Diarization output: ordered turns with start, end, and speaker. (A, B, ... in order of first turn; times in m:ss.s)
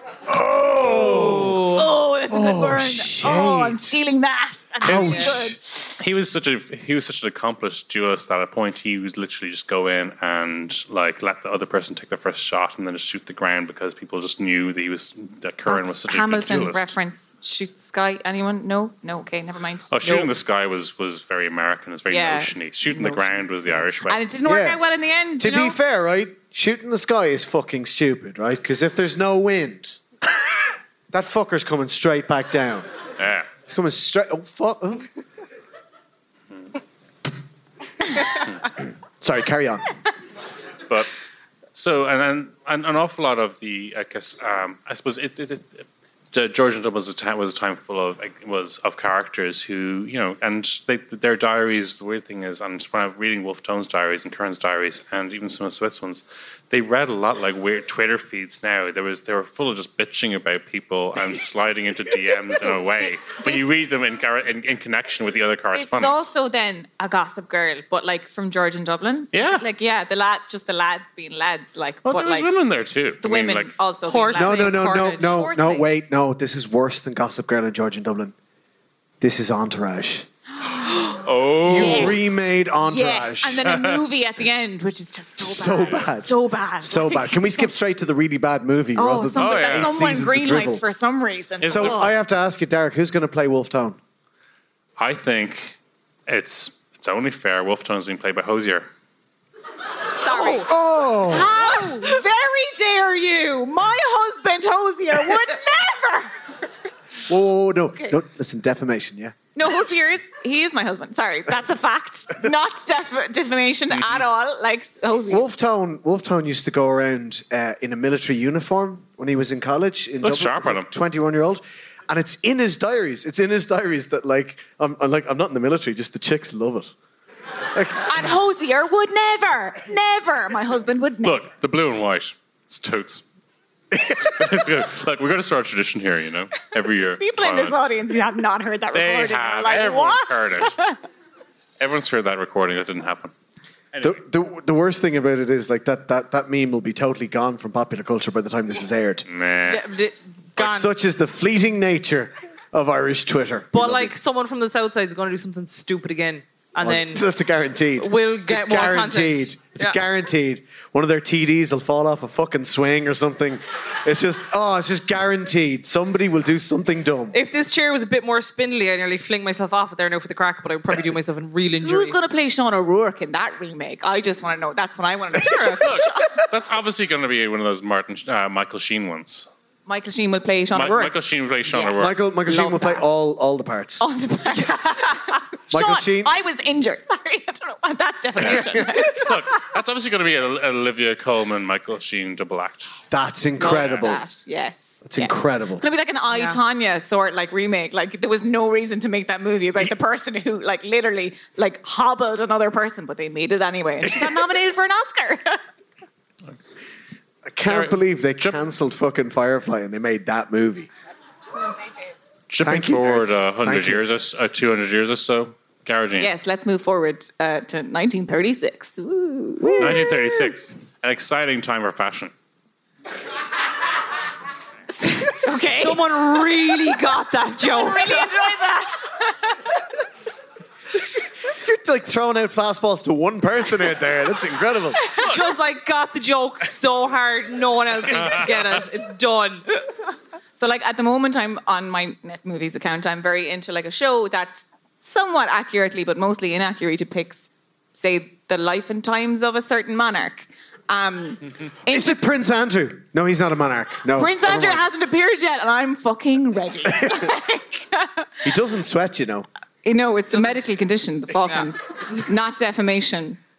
0:00.3-0:01.8 A
0:01.0-0:01.8 B
0:01.7-0:06.0 C
0:02.3-0:04.0 A
0:04.8-0:05.6 A
0:06.0-0:16.9 D
0:15.7-0:20.3 C
0:19.9-0:24.2 D
0:22.1-0:25.8 C
0:24.5-0:24.8 A
0:25.4-0:30.0 A
0:31.1-0:32.9 A
0:33.2-0:33.5 D
0:33.7-0:35.1 A
0:39.2-0:39.9 A
0:41.8-1:06.3 D
1:02.7-1:03.7 C
1:05.7-1:12.5 C
1:09.3-1:09.6 D
1:12.0-1:13.7 D
1:13.2-1:15.9 C
1:14.1-1:15.4 B
1:14.4-1:18.3 A
1:19.2-1:20.3 A
1:20.7-1:22.2 C
1:21.2-1:22.2 D
1:21.6-1:23.7 A
1:22.8-1:27.7 C
1:23.6-1:24.0 D
1:25.4-1:30.8 A
1:29.0-1:32.1 C
1:29.4-1:30.0 D
1:31.6-1:32.1 D
1:31.7-1:34.0 A
1:35.0-1:38.9 D
1:40.0-1:46.7 C
1:40.3-1:42.0 A
1:47.3-1:49.4 A
1:49.6-1:55.4 C
1:55.3-2:06.9 A
2:00.2-2:00.9 D
2:07.7-2:08.2 A
2:08.0-2:11.4 C
2:11.2-2:13.2 D
2:13.9-2:14.2 A
2:14.0-2:17.8 D
2:16.9-2:21.0 C
2:18.9-2:20.8 D
2:21.8-2:23.3 D
2:23.9-2:24.2 D
2:24.0-2:29.3 A
2:29.3-2:29.9 D
2:29.7-2:30.9 B
2:30.6-2:34.1 A
2:33.7-2:37.2 B
2:36.8-2:47.4 A
2:38.0-2:40.0 B
2:47.3-2:52.2 B
2:51.8-2:56.4 C
2:55.5-2:59.5 D
2:59.9-3:01.1 C
3:00.7-3:02.2 D
3:01.7-3:03.0 C
3:02.0-3:04.0 A
3:04.0-3:09.6 C
3:05.7-3:06.3 A
3:08.4-3:12.9 D
3:08.4-3:08.9 A
3:13.1-3:14.2 A
3:13.6-3:25.6 C
3:13.7-3:14.1 D
3:15.0-3:15.8 A
3:16.3-3:16.6 B
3:27.4-3:30.9 A
3:27.7-3:28.6 D
3:32.5-3:36.3 D
3:32.6-3:34.0 A
3:36.2-3:40.2 C
3:39.6-3:40.1 A
3:39.8-3:42.3 D
3:44.9-3:46.0 C
3:45.7-3:48.3 B
3:47.7-3:49.6 C
3:51.5-3:55.0 A
3:55.2-3:59.6 B
4:00.6-4:12.2 C
4:11.9-4:14.8 A
4:14.1-4:18.3 C
4:18.4-4:19.5 A
4:19.8-4:23.4 C
4:20.3-4:20.6 B